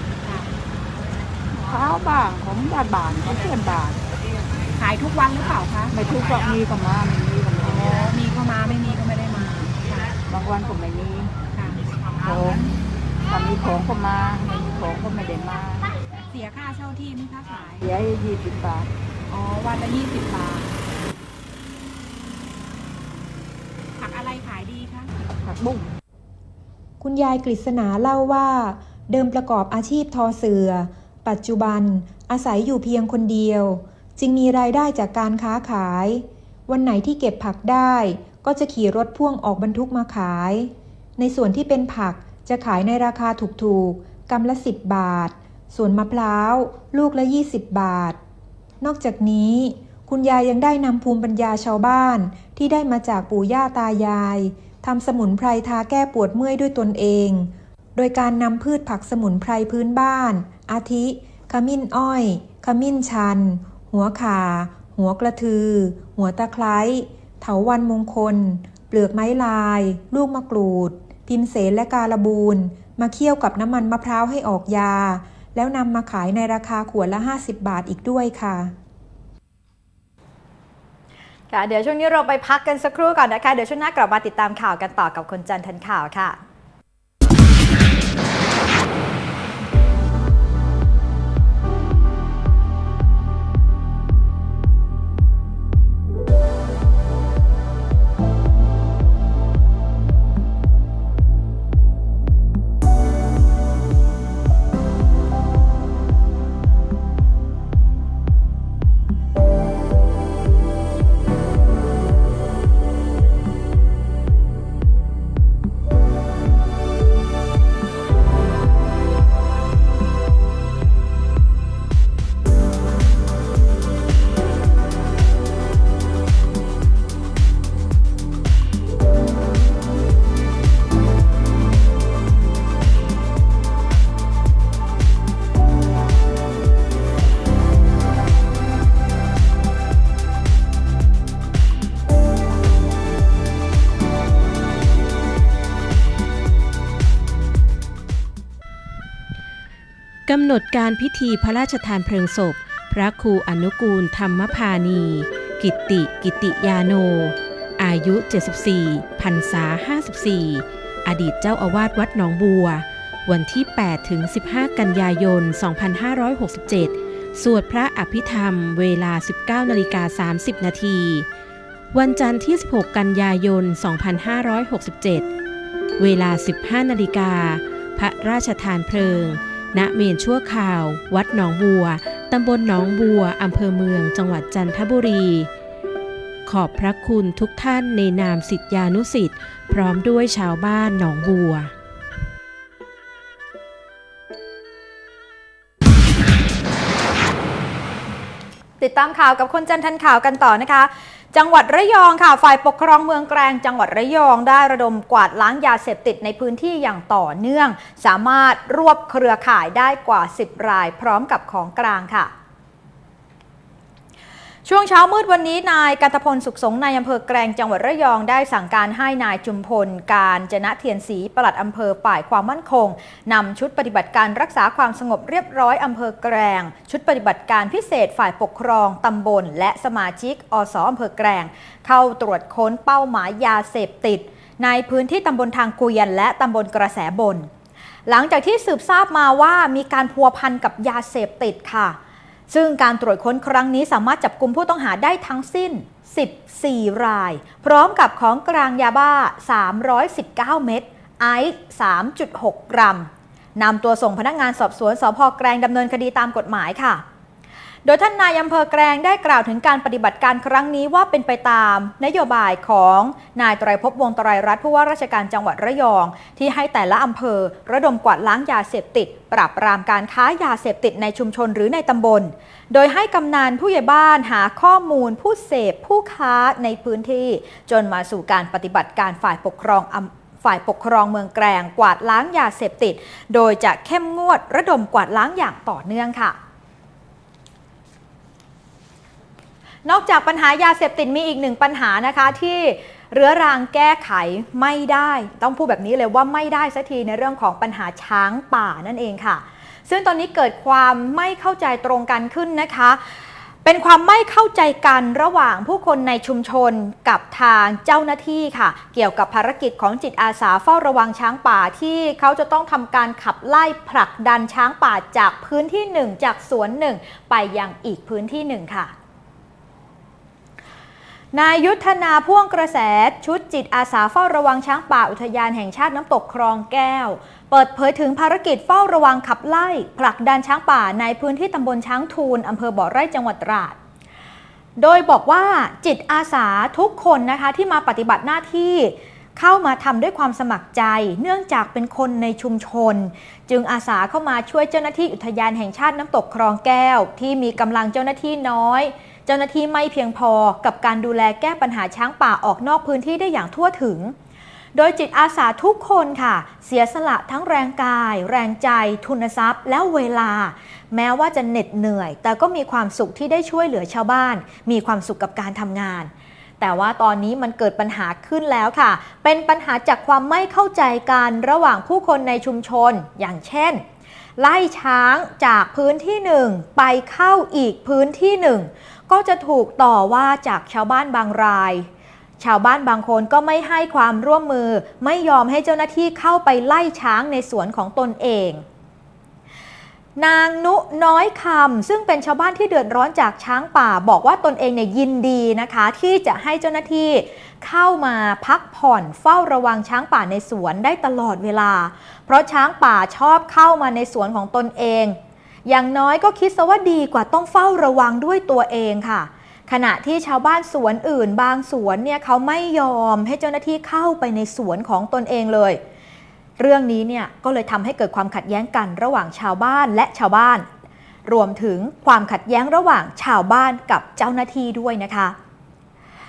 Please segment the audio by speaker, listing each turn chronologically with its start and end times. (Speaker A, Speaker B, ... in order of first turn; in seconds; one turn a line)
Speaker A: 0.2-0.5
Speaker B: 1.7-4.0
Speaker A: 4.7-6.0
Speaker B: 5.9-8.1
Speaker A: 7.6-10.1
Speaker B: 10.3-11.3
Speaker A: 11.5-12.7
Speaker B: 12.2-12.6
Speaker B: 13.3-15.9
Speaker A: 16.3-17.9
Speaker B: 17.8-18.9
Speaker A: 19.3-20.8
Speaker A: 24.0-25.1
Speaker B: 25.4-25.9
Speaker C: 27.0-48.2
Speaker C: 48.8-78.7
Speaker D: 81.5-86.4
Speaker E: 150.3-171.3
Speaker E: 171.9-175.3
Speaker E: 176.0-185.5
Speaker E: 186.5-191.7
Speaker D: 198.8-212.3
Speaker D: 214.7-237.5
Speaker D: 238.1-242.0
Speaker D: 242.5-257.0
Speaker D: 257.9-286.4
Speaker D: 289.9-303.1
Speaker D: 303.6-318.9
Speaker D: 321.3-333.8
Speaker D: 334.8-354.1
Speaker D: 354.7-373.8
Speaker D: 374.4-381.9
Speaker D: 382.4-388.6
Speaker D: 390.2-415.8
Speaker D: 416.6-420.7
Speaker D: 421.3-425.4